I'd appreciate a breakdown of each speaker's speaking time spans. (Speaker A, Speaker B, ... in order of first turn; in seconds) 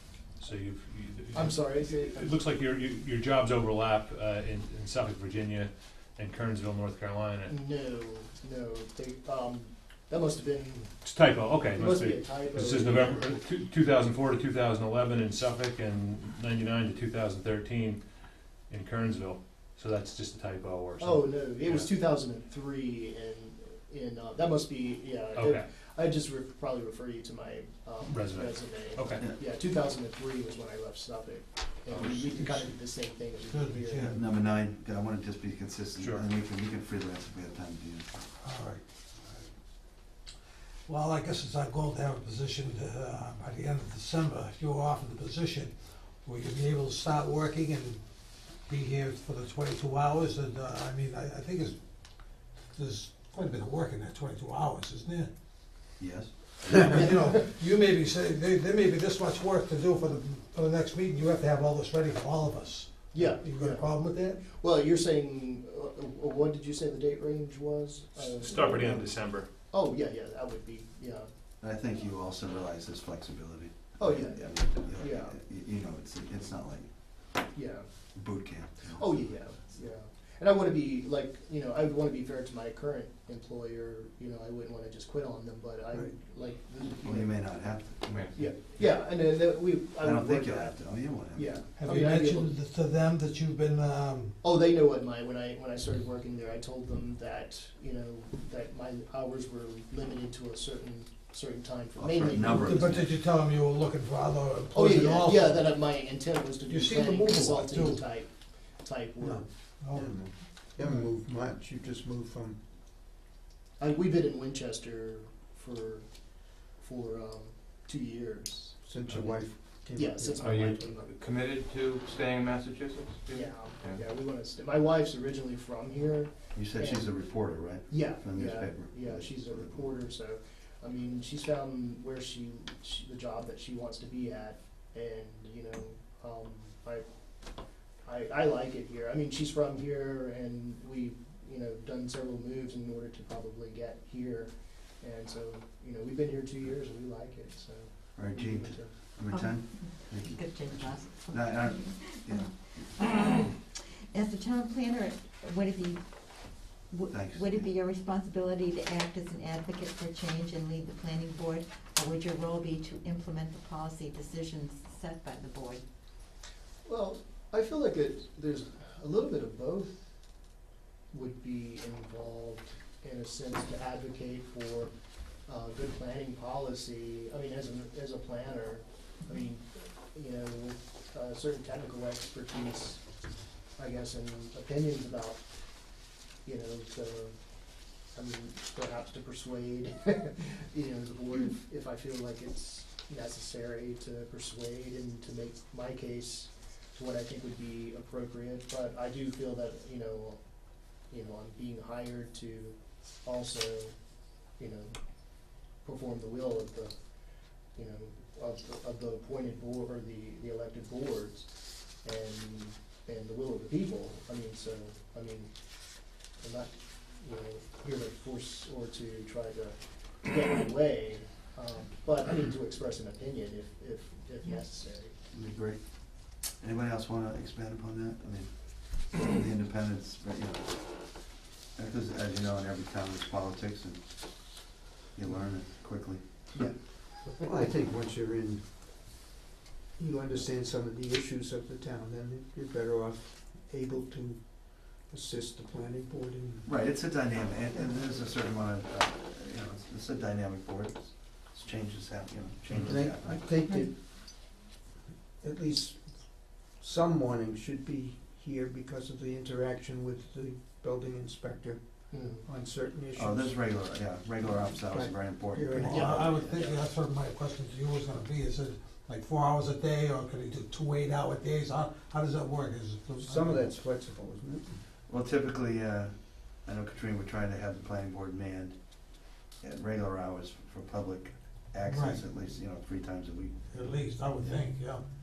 Speaker A: 0.4-7.5, 11.0-18.0, 18.7-21.9, 25.4-25.6, 28.0-29.2, 36.0-36.2, 68.2-69.5
Speaker B: 1.3-2.4, 7.5-10.9, 11.7-13.4, 21.0-34.1, 63.1-69.1, 69.7-71.3, 74.0-75.3, 77.5-77.9, 78.9-87.3, 88.3-92.5, 94.4-103.0, 104.7-109.5, 113.8-116.0, 116.8-121.1, 123.3-127.0, 127.9-137.0, 138.0-148.9, 166.8-170.1, 171.1-174.9, 175.4-183.0, 183.8-185.4, 186.4-187.4, 188.1-200.4, 201.1-203.9, 204.6-204.9, 205.8-206.9, 207.7-211.5, 212.0-215.5, 216.4-225.1, 262.1-262.4, 265.9-266.8
Speaker C: 32.4-32.8, 33.5-34.2, 38.4-38.8, 40.9-45.7, 46.2-48.0, 48.7-51.8, 52.7-55.3, 56.7-64.5, 91.8-94.3, 102.4-105.8, 106.7-108.0, 109.2-110.1, 110.8-111.1, 265.8-273.7, 281.8-282.2, 283.7-285.0
Speaker D: 34.0-38.2, 56.0-56.9, 71.6-76.9, 78.1-79.2, 86.9-88.3, 90.0-91.6, 102.0-103.1, 126.5-129.8, 148.2-152.9, 157.1-157.7, 225.3-236.5, 246.6-253.5, 263.1-266.2, 275.1-283.5
Speaker E: 88.0-88.4, 120.4-124.0
Speaker F: 109.9-112.6, 118.8-120.9, 237.3-238.7, 240.0-246.7, 252.7-254.0, 255.4-263.6, 264.7-266.4, 273.0-274.8
Speaker G: 150.2-152.1, 153.0-153.5, 154.1-156.0, 156.9-165.8